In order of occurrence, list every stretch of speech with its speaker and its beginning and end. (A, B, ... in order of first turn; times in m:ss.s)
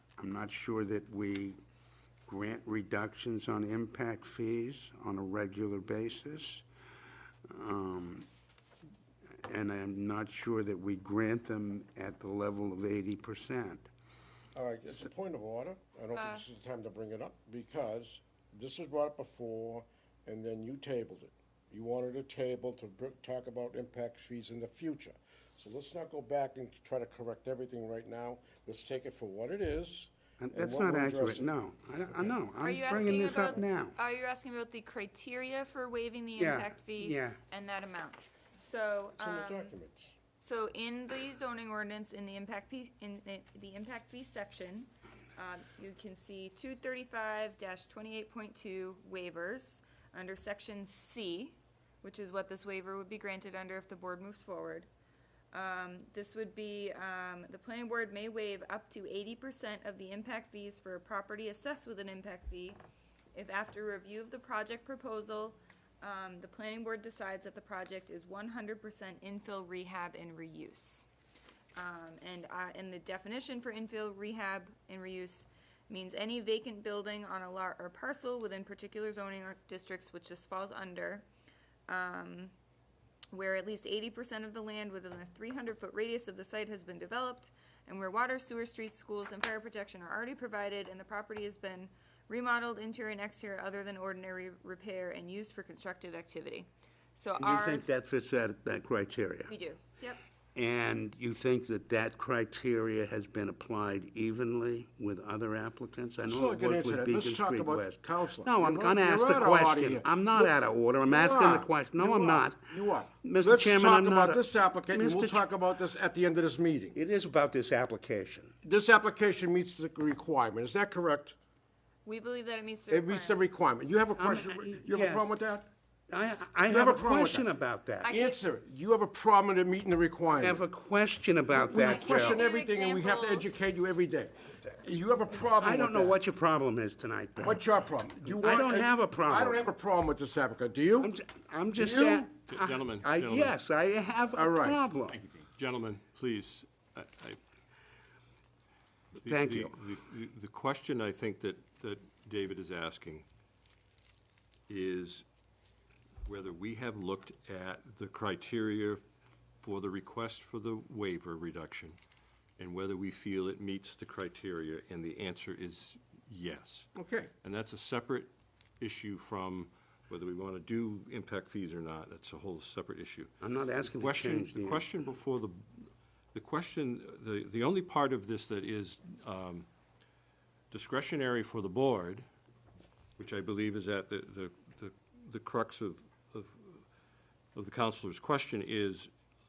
0:00.2-0:01.6 A
0:02.3-0:06.6 A
0:07.4-0:08.3 A
0:09.4-0:13.9 A
0:14.5-0:31.5 B
0:16.1-0:16.4 C
0:30.4-0:34.0 A
0:32.6-0:39.7 C
0:32.9-0:33.3 B
0:36.4-0:37.4 A
0:39.2-0:40.1 B
0:40.4-0:54.9 C
0:55.5-1:02.8 C
1:03.3-1:11.0 C
1:11.7-1:21.2 C
1:21.9-1:22.5 C
1:23.3-1:37.8 C
1:37.4-1:39.5 A
1:39.5-1:40.2 C
1:40.5-1:52.7 A
1:46.2-1:57.0 B
1:53.2-1:55.4 A
1:56.9-1:58.5 A
1:58.6-2:01.4 B
2:02.0-2:03.4 C
2:02.9-2:05.7 B
2:04.2-2:05.2 A
2:06.1-2:08.1 A
2:06.7-2:07.5 B
2:08.0-2:08.4 C
2:08.1-2:10.6 B
2:10.4-2:12.4 A
2:11.6-2:16.2 B
2:11.7-2:13.5 C
2:15.6-2:19.6 A
2:17.4-2:21.1 B
2:21.0-2:25.2 A
2:21.8-2:22.3 B
2:22.5-2:23.6 D
2:24.3-2:24.8 B
2:25.1-2:27.4 D
2:29.2-2:29.7 A
2:29.2-2:33.2 D
2:34.7-2:35.2 D
2:36.2-2:39.0 D
2:39.6-2:42.0 D
2:42.6-2:46.9 D
2:47.0-2:47.3 B
2:47.4-2:53.3 D
2:53.4-2:54.8 A
2:53.9-2:59.7 D
3:00.7-3:02.2 D
3:03.2-3:06.8 D
3:07.5-3:09.1 D